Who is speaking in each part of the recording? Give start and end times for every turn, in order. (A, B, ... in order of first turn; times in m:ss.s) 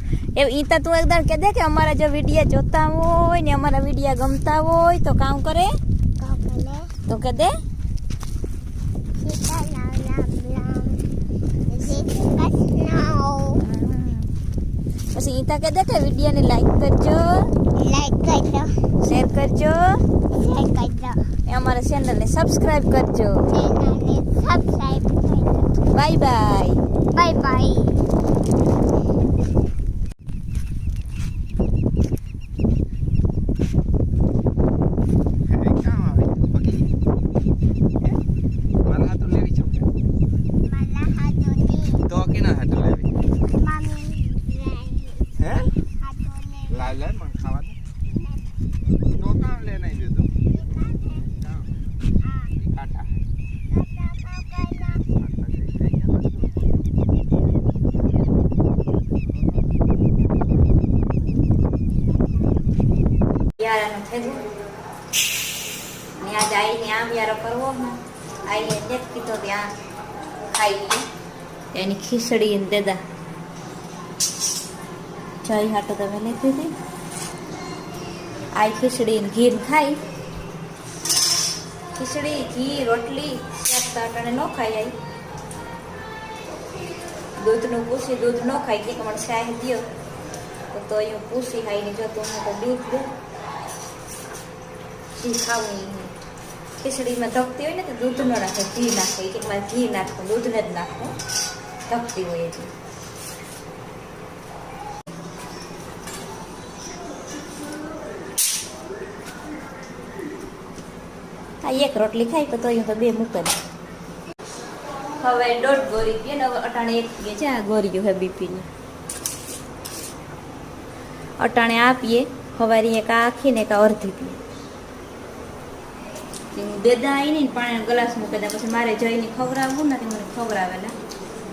0:00.3-0:05.8 A
0:06.2-0:06.9 B
0:07.1-0:07.6 A
0:09.2-0:11.1 B
0:11.7-0:13.6 B
0:13.6-0:14.3 A
0:15.1-0:17.4 A
0:17.8-0:18.7 B
0:19.0-0:20.0 A
0:20.3-0:21.2 B
0:21.5-0:23.5 A
0:23.5-0:25.7 B
0:25.9-0:26.8 A
0:27.1-0:28.0 B
0:35.7-0:36.8 C
0:38.9-0:39.8 C
0:40.6-0:42.0 B
0:42.1-0:43.0 C
0:43.5-0:45.3 B
0:46.0-0:46.9 B
0:46.7-0:47.7 C
0:48.1-0:48.4 B
0:49.2-0:50.3 C
0:50.5-0:51.3 B
0:52.2-0:52.5 B
0:52.6-0:53.2 C
0:53.7-0:55.1 B
0:55.3-0:56.5 C
1:03.6-1:04.4 A
1:06.2-1:09.7 A
1:10.5-1:11.0 A
1:11.7-1:13.0 A
1:15.4-1:16.7 A
1:18.5-1:20.0 A
1:21.9-1:24.9 A
1:27.4-1:29.8 A
1:30.7-1:33.1 A
1:35.1-1:36.1 A
1:36.8-1:41.2 A
1:41.9-1:42.7 A
1:51.6-1:53.6 A
1:55.2-1:58.7 A
2:01.4-2:04.4 A
2:06.5-2:10.9 A